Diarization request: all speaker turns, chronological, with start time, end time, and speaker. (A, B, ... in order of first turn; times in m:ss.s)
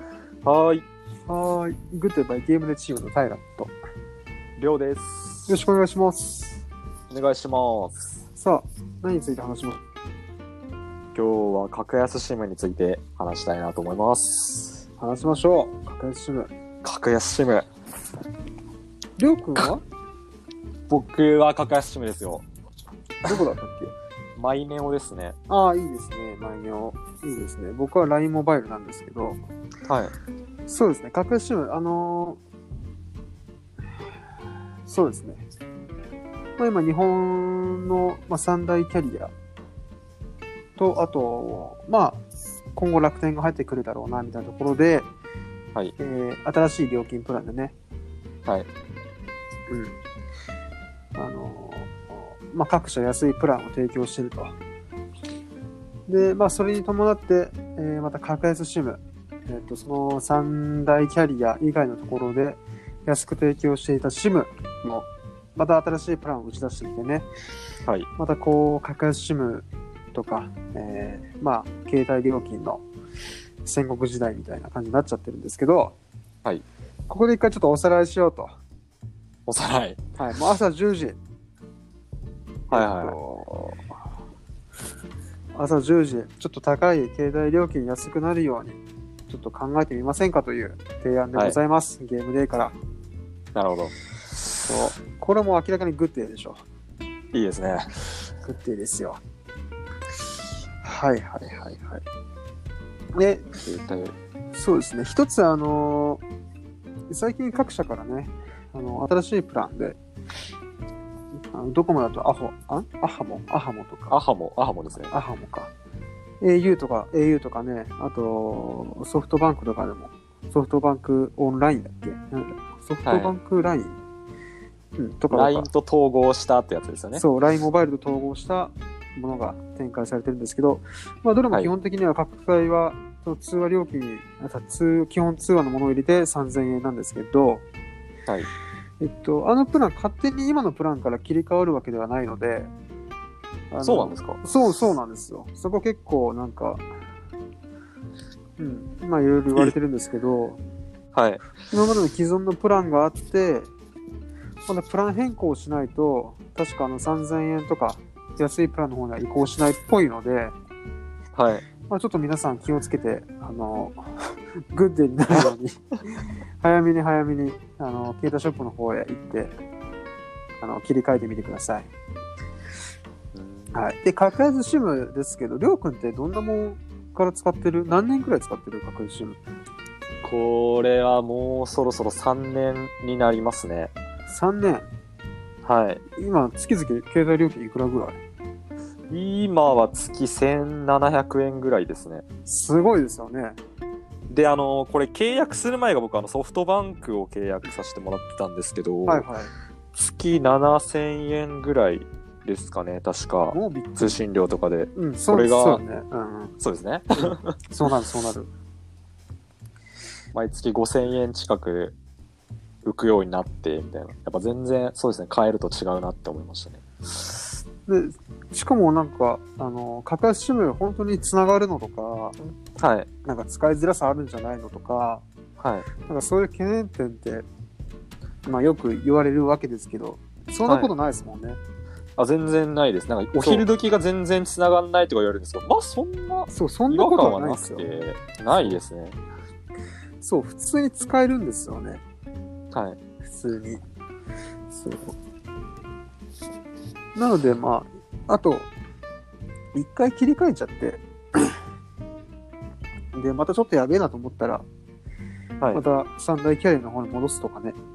0:00.4-0:00.8 A
0:01.3-0:03.7 B
0:04.6-0:05.6 A
0:05.5-0:06.6 B
0:07.1-0:08.0 A
0:08.3-0:09.8 B
0:11.1-0:14.8 A
0:15.0-0:16.5 B
0:16.8-0:17.7 A
0:19.2-0:19.8 B
0:20.9-0:22.4 A
0:23.2-0:23.9 B
0:24.4-0:25.4 A
0:25.5-0:29.4 B
0:29.9-0:30.1 A
0:30.7-0:32.4 B
0:34.8-0:35.4 B
0:36.6-0:39.3 B
0:40.8-0:42.2 B
0:42.7-0:45.1 B
0:46.0-0:47.7 B
0:49.7-0:49.9 B
0:51.2-0:54.5 B
0:56.1-1:07.3 B
1:08.2-1:12.8 B
1:13.6-1:15.9 B
1:17.1-1:18.6 B
1:19.5-1:20.0 A
1:20.2-1:21.2 B
1:22.7-1:23.8 B
1:22.7-1:23.2 A
1:25.5-1:32.7 B
1:33.5-1:33.9 A
1:34.6-1:36.6 B
1:37.3-1:38.1 A
1:38.4-1:39.2 B
1:40.8-1:42.0 B
1:43.1-1:43.5 B
1:43.6-1:44.1 A
1:44.5-1:46.2 B
1:47.1-1:50.0 B
1:51.5-1:54.1 B
1:54.1-1:55.1 A
1:55.1-1:55.7 B
1:56.4-2:04.0 B
2:03.0-2:03.3 A
2:05.0-2:05.7 B
2:05.3-2:07.2 A
2:07.1-2:17.6 B
2:19.0-2:22.7 B
2:23.7-2:26.8 B
2:23.8-2:24.4 A
2:28.6-2:30.6 B
2:31.1-2:31.4 A
2:31.7-2:33.7 B
2:34.7-2:40.5 B
2:41.3-2:41.6 A
2:41.9-2:49.5 B
2:50.6-2:51.9 B
2:53.3-2:53.8 A
2:53.7-2:59.4 B
3:00.2-3:03.9 A
3:04.3-3:04.9 B
3:05.6-3:06.0 A
3:06.2-3:08.2 B
3:09.1-3:12.2 A
3:12.4-3:13.6 B
3:14.3-3:19.2 A
3:19.0-3:19.5 B
3:19.9-3:25.8 A
3:23.5-3:24.2 B
3:24.9-3:26.5 B
3:26.6-3:27.5 A
3:27.7-3:28.5 B
3:30.3-3:31.9 A
3:32.8-3:36.8 A
3:37.9-3:42.4 B
3:42.8-3:43.1 A
3:43.2-3:45.2 B
3:45.6-3:45.9 A
3:46.0-3:47.4 B
3:48.4-3:51.6 B
3:50.6-3:50.9 A
3:52.2-3:59.2 A
3:53.4-3:53.7 B
3:56.5-3:57.8 B
4:00.2-4:02.0 B
4:02.7-4:03.0 A
4:03.2-4:03.8 B
4:04.7-4:05.1 B
4:07.1-4:08.7 B
4:09.7-4:11.6 B
4:13.1-4:14.6 B
4:15.7-4:17.8 B